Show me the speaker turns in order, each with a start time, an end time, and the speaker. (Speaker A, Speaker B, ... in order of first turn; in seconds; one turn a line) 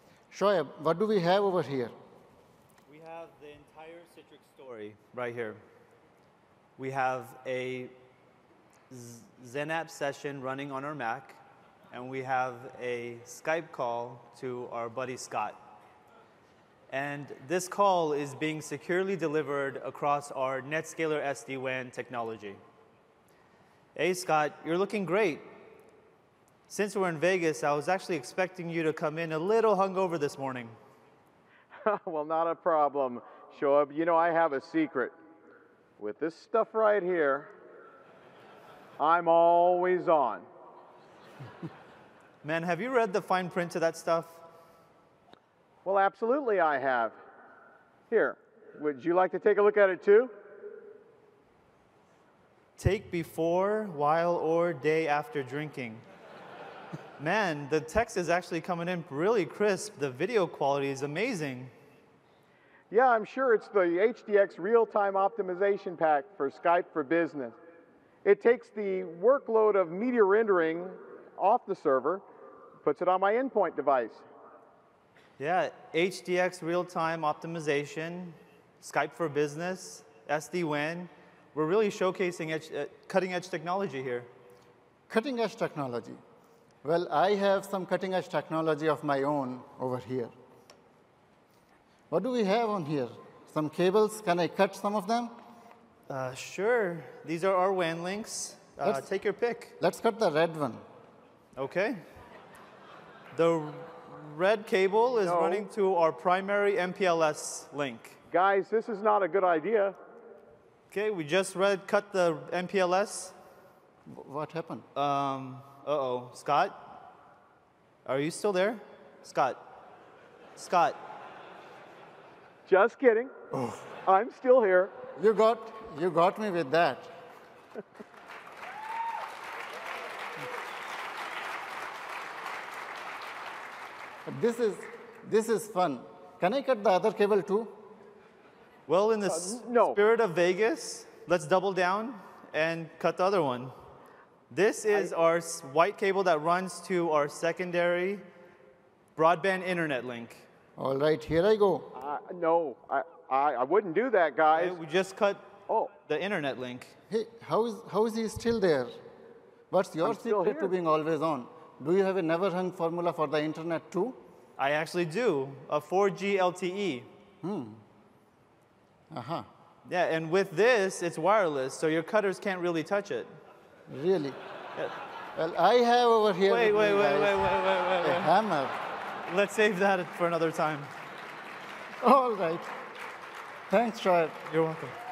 Speaker A: 0.3-1.9
Speaker B: 2.9-5.6
Speaker B: 6.8-7.9
Speaker B: 8.9-11.4
Speaker B: 11.9-15.6
Speaker B: 16.9-22.6
Speaker B: 23.9-25.4
Speaker B: 26.7-30.8
Speaker C: 31.7-35.1
Speaker C: 36.0-37.5
Speaker C: 39.0-40.5
Speaker B: 42.4-44.4
Speaker C: 45.9-47.2
Speaker C: 48.1-50.3
Speaker B: 52.8-56.0
Speaker B: 57.2-61.7
Speaker C: 62.9-67.6
Speaker C: 68.2-72.2
Speaker C: 72.8-74.2
Speaker B: 75.4-84.3
Speaker A: 85.1-86.2
Speaker A: 86.8-90.3
Speaker A: 92.1-95.3
Speaker B: 96.1-99.8
Speaker A: 99.8-100.8
Speaker B: 101.6-102.0
Speaker B: 103.3-108.2
Speaker C: 105.2-105.7
Speaker C: 108.3-110.0
Speaker B: 110.9-113.3
Speaker A: 114.1-114.8
Speaker B: 115.0-116.8
Speaker B: 118.0-119.6
Speaker B: 120.6-121.0
Speaker C: 122.7-123.3
Speaker A: 123.5-123.8
Speaker C: 124.0-124.9
Speaker A: 125.2-127.1
Speaker A: 134.3-137.7
Speaker B: 138.9-143.7
Speaker C: 139.2-140.0
Speaker B: 144.5-148.2
Speaker B: 149.2-150.5
Speaker A: 150.8-151.9
Speaker C: 151.9-154.8
Speaker B: 154.5-155.5
Speaker B: 156.1-156.9
Speaker A: 157.1-158.9
Speaker A: 159.7-164.2
Speaker C: 160.0-160.7
Speaker B: 164.6-167.1
Speaker A: 167.4-167.8
Speaker A: 169.1-169.5
Speaker B: 169.8-173.3
Speaker A: 173.9-174.4
Speaker A: 175.3-177.5
Speaker B: 176.5-178.3
Speaker A: 178.0-178.8
Speaker B: 179.3-180.9
Speaker A: 182.0-182.7
Speaker A: 183.7-184.4
Speaker B: 184.5-184.9